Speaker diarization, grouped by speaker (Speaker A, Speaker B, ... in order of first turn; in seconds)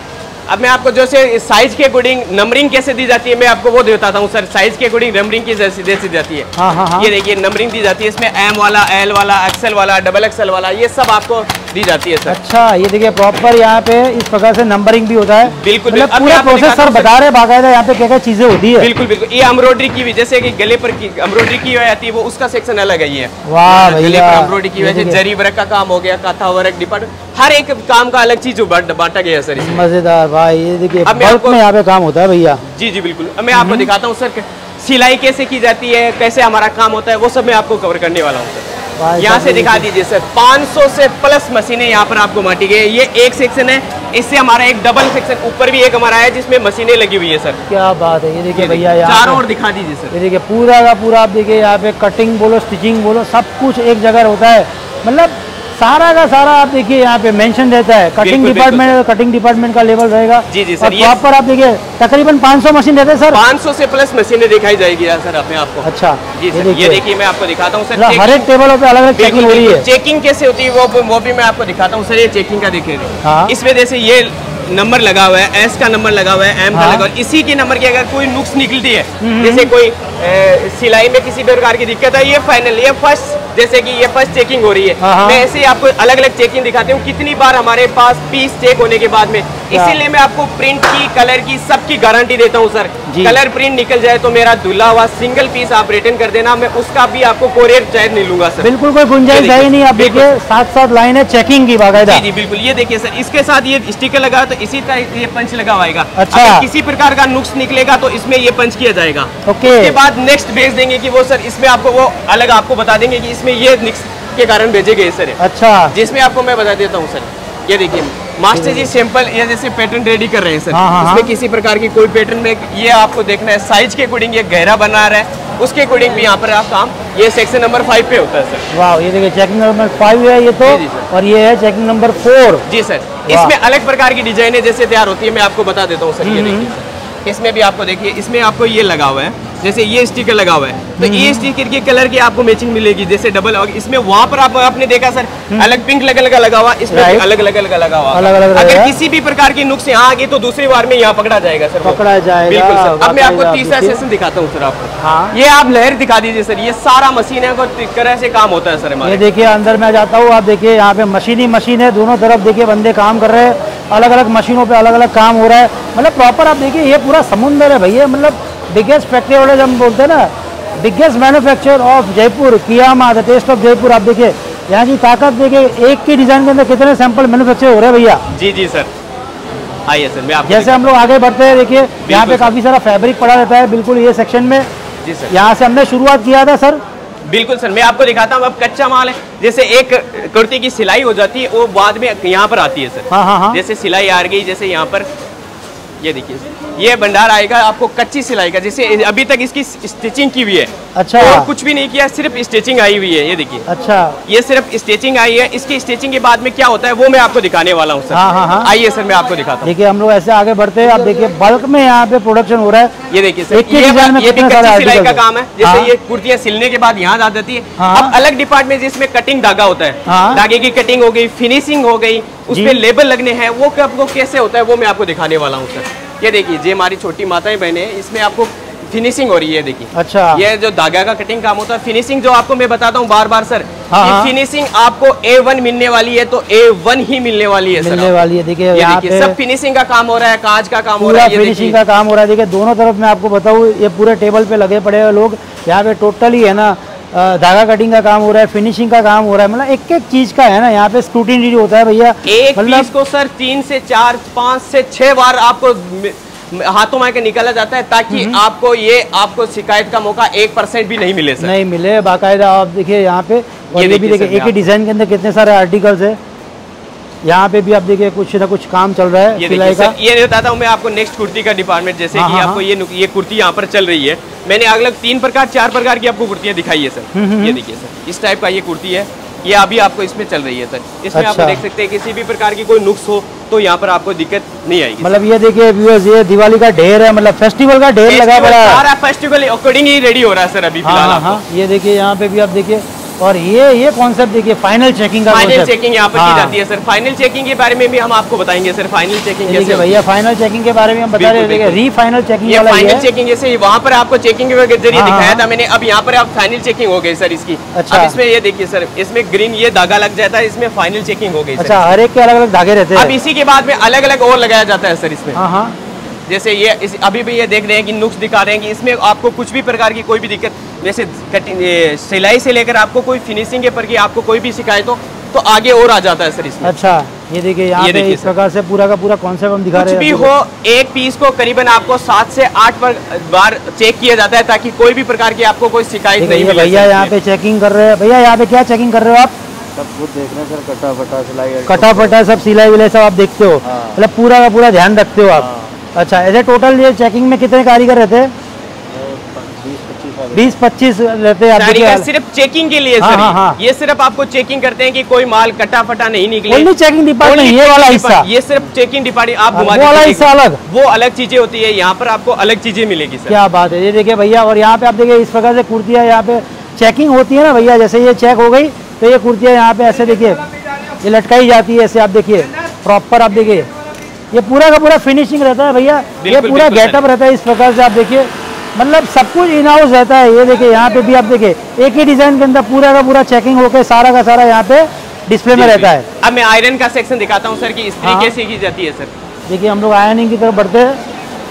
Speaker A: 0.5-12.4, 15.4-17.1, 18.8-29.8, 31.1-31.6, 32.7-47.6, 48.5-50.1, 58.2-58.9, 60.5-61.2, 63.3-68.5, 69.2-98.7, 99.3-100.3, 101.9-115.4, 115.9-128.7, 130.6-131.1, 132.7-159.2, 178.3-178.9, 179.9-180.9, 182.0-182.5, 185.0-185.3, 187.2-195.1, 196.0-203.7, 204.3-209.7, 213.1-238.1, 238.7-241.8, 252.2-261.5, 263.7-264.7, 269.4-285.1, 288.1-291.4, 295.3-300.0, 301.1-301.8, 302.4-311.9, 312.9-315.4, 316.3-326.7, 327.8-328.3, 329.7-337.1, 351.5-356.7, 357.2-363.4, 376.2-377.0, 385.5-389.1
Speaker B: 6.6-7.1, 12.3-18.9, 23.4-25.2, 29.6-32.6, 33.5-33.9, 39.0-39.9, 47.7-49.4, 50.1-63.4, 65.8-67.0, 68.0-69.9, 73.2-73.5, 76.7-77.1, 79.2-79.7, 85.0-85.4, 89.7-90.0, 93.1-93.4, 98.6-102.2, 106.2-106.7, 109.5-110.0, 115.4-115.9, 118.5-118.9, 120.7-121.3, 128.7-132.7, 133.3-133.5, 136.2-136.7, 141.0-141.5, 146.9-147.2, 148.1-148.9, 151.8-154.0, 155.0-155.3, 159.0-178.2, 180.5-184.7, 185.3-186.8, 193.1-193.6, 200.9-201.5, 203.7-204.2, 208.1-208.7, 209.6-212.9, 213.5-215.9, 217.8-218.2, 220.1-220.4, 222.5-222.8, 229.9-230.4, 233.9-234.3, 237.8-239.4, 241.0-252.9, 258.1-258.4, 261.4-266.2, 267.2-269.9, 272.1-272.6, 277.1-277.6, 281.1-281.6, 285.0-288.8, 290.8-296.5, 299.5-303.1, 304.9-305.4, 307.8-308.1, 311.6-313.1, 315.4-315.8, 326.6-330.3, 336.2-339.3, 341.7-348.3, 350.3-352.1, 353.0-353.6, 356.5-358.3, 359.5-360.6, 363.3-370.4, 371.0-373.7, 374.3-386.1, 388.0-388.3, 389.5-391.0
Speaker C: 339.8-342.2, 343.6-344.0, 345.3-345.7, 348.9-350.5